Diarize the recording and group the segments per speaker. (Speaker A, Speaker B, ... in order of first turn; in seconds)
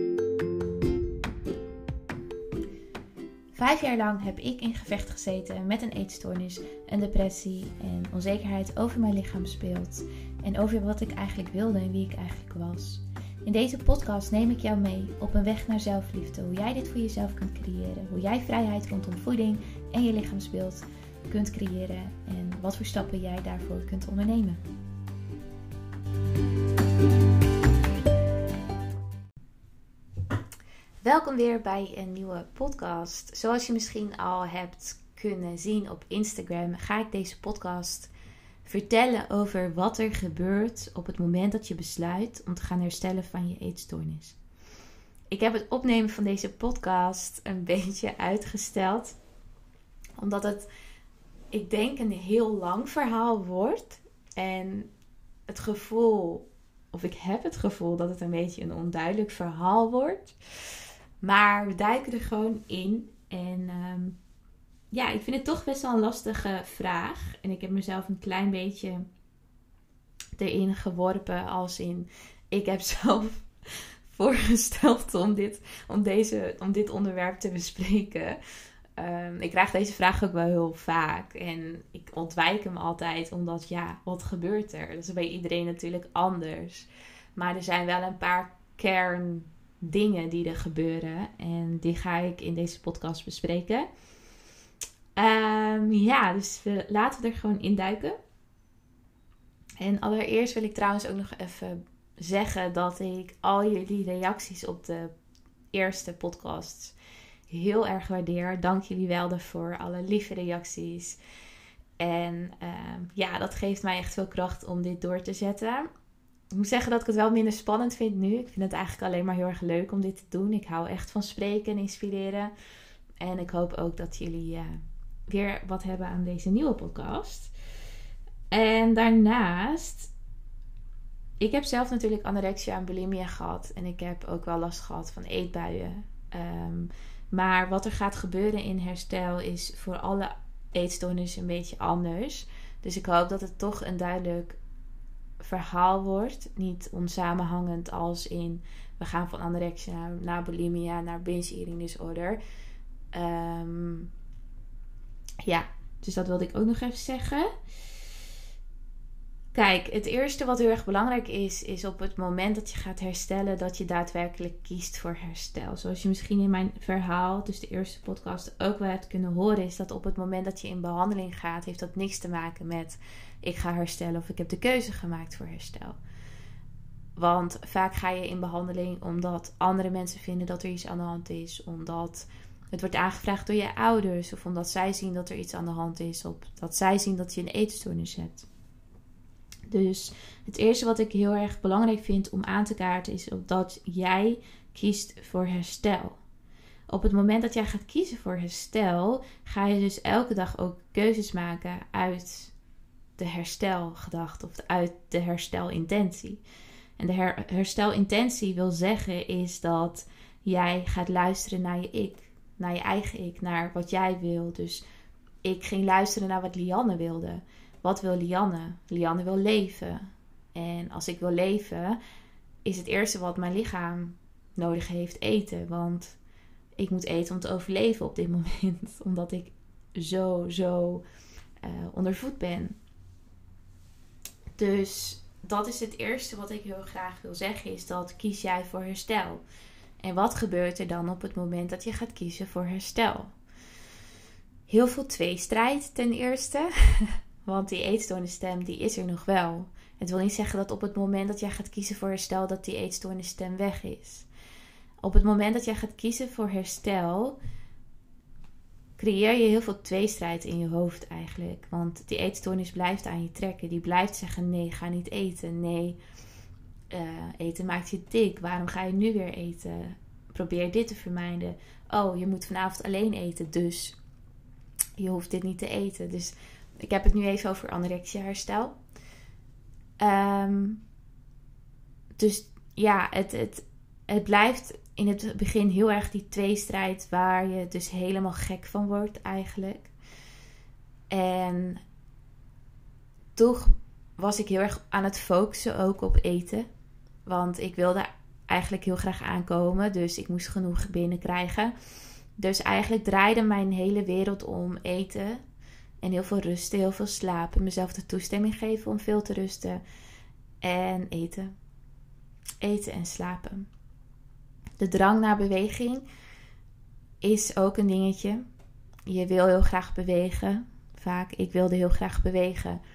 Speaker A: 3.5-24.6, 31.0-38.1, 38.6-44.4, 45.3-49.2, 50.2-50.7, 51.5-54.9, 55.5-60.4, 61.2-64.2, 64.9-69.0, 70.4-73.5, 74.1-78.4, 79.0-93.9, 95.2-98.2, 99.8-105.1, 105.7-106.9, 107.5-111.2, 112.0-115.9, 116.5-122.5, 123.2-127.5, 128.5-130.1, 131.4-144.6, 145.4-152.4, 153.1-154.1, 155.4-157.5, 159.5-176.0, 177.2-188.4, 189.7-196.2, 196.9-202.5, 203.2-206.4, 207.0-214.8, 215.4-222.0, 222.6-226.2, 226.8-231.0, 231.6-232.8, 234.6-239.4, 240.0-243.3, 244.7-254.3, 255.0-257.4, 259.0-266.0, 266.9-273.9, 275.0-278.8, 280.0-280.8, 282.2-289.9, 291.1-291.8, 293.4-296.6, 297.2-301.7, 302.4-305.4, 306.0-309.8, 310.6-311.5, 312.6-313.7, 314.8-316.0, 317.2-318.4, 319.1-322.8